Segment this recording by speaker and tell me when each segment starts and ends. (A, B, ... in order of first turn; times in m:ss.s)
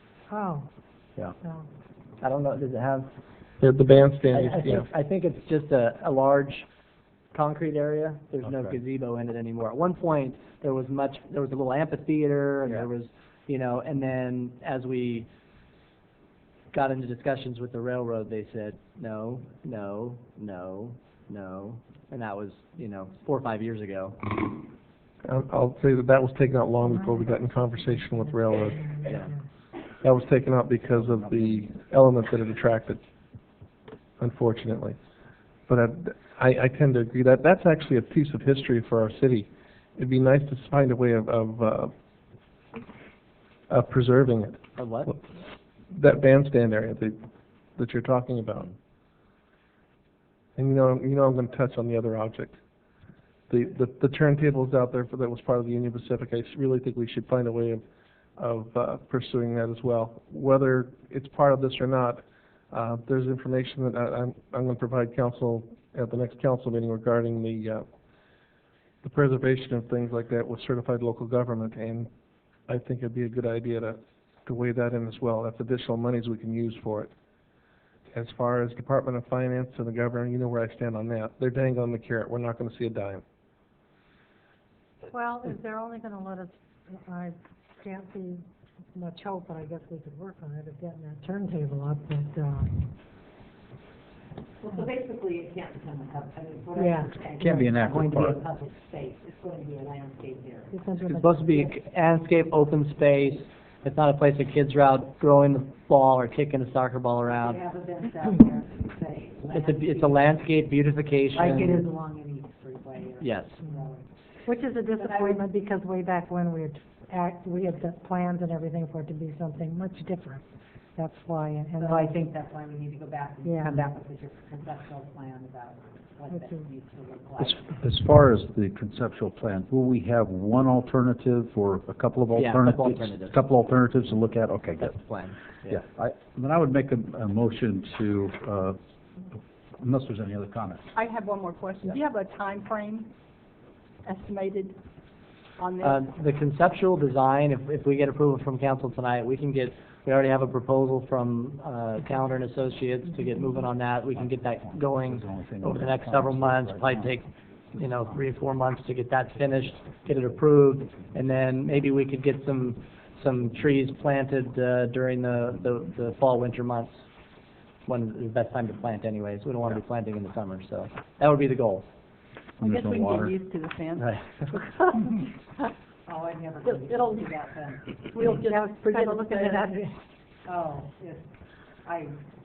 0:00.3-0:00.7 A
0:01.4-0:01.7 A
0:02.2-0:03.1 B
0:03.6-0:04.9 C
0:04.3-0:06.7 B
0:07.3-0:15.3 B
0:16.7-0:24.4 B
0:25.2-0:28.9 C
0:26.8-0:29.4 A
0:29.1-0:29.3 B
0:30.0-0:33.0 C
0:30.9-0:31.7 D
0:34.2-0:35.0 C
0:35.7-0:41.9 C
0:43.7-0:45.3 C
0:44.8-0:45.1 B
0:45.9-0:47.2 C
0:47.8-0:48.8 C
0:50.6-0:52.6 C
0:53.5-0:57.8 C
0:58.4-1:07.8 C
1:09.0-1:12.1 C
1:12.7-1:17.1 C
1:18.1-1:23.2 C
1:25.1-1:32.9 A
1:34.6-1:40.8 E
1:36.8-1:37.1 A
1:37.4-1:38.4 D
1:40.7-1:41.7 A
1:41.0-1:47.6 B
1:47.3-1:50.2 E
1:49.5-1:51.9 B
1:51.3-1:54.1 E
1:53.2-1:53.6 B
1:54.4-2:00.4 A
1:55.0-1:55.4 E
2:01.0-2:02.3 A
2:01.8-2:07.8 E
2:03.4-2:03.8 A
2:06.3-2:06.7 A
2:07.4-2:15.0 D
2:12.3-2:13.4 B
2:14.8-2:15.8 B
2:15.7-2:18.8 D
2:19.3-2:20.9 D
2:20.9-2:23.1 F
2:24.0-2:24.8 F
2:25.6-2:26.0 F
2:25.8-2:47.1 B
2:34.6-2:37.1 D
2:47.9-2:51.8 B
2:52.6-2:53.4 D
2:52.6-2:54.2 F
2:54.0-2:54.6 B
2:56.1-2:57.8 E
2:56.7-2:57.3 F
2:58.1-2:59.7 F
2:58.3-3:00.0 A
3:00.5-3:01.3 E
3:01.8-3:02.2 E